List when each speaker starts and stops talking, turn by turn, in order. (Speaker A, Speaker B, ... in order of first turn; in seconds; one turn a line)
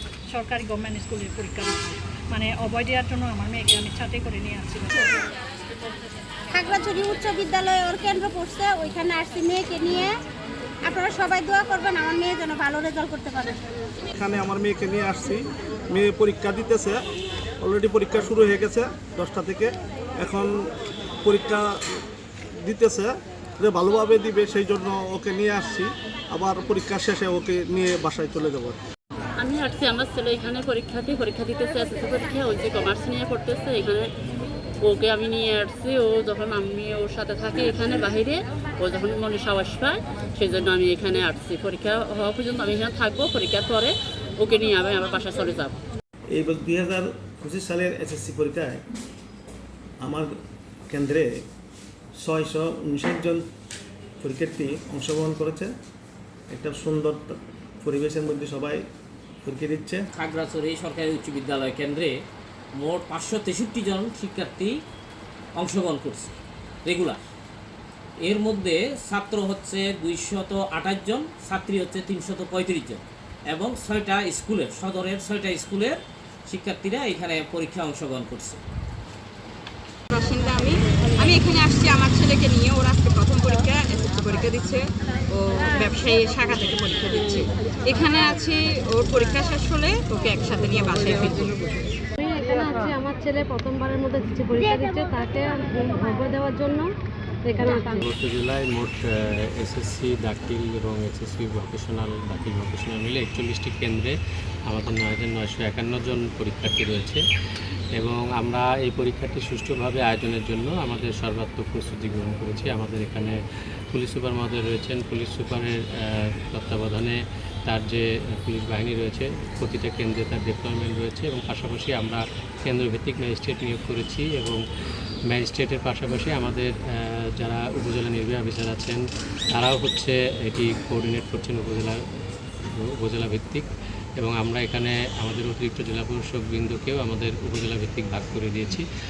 Speaker A: 0.3-5.2
Speaker B: 6.5-10.1
Speaker B: 10.8-13.6
Speaker C: 14.1-17.0
Speaker C: 17.6-20.5
Speaker C: 21.2-21.7
Speaker C: 22.6-28.8
Speaker D: 29.4-34.1
Speaker D: 34.8-45.7
Speaker E: 46.3-48.8
Speaker E: 50.0-50.3
Speaker E: 50.9-51.3
Speaker E: 52.2-53.5
Speaker E: 54.2-55.7
Speaker E: 56.5-58.8
Speaker E: 59.4-60.0
Speaker F: 60.1-62.1
Speaker F: 62.8-64.8
Speaker F: 65.6-67.2
Speaker F: 68.2-78.6
Speaker G: 80.1-91.9
Speaker H: 92.2-96.9
Speaker H: 97.5-98.0
Speaker I: 98.0-99.0
Speaker I: 99.6-104.1
Speaker I: 104.7-107.2
Speaker I: 108.0-113.3
Speaker I: 113.9-115.8
Speaker I: 116.5-117.2
Speaker I: 117.7-124.6
Speaker I: 125.3-126.7
Speaker I: 127.4-129.0
Speaker I: 129.6-131.9
Speaker I: 133.0-133.7
Speaker I: 134.2-138.8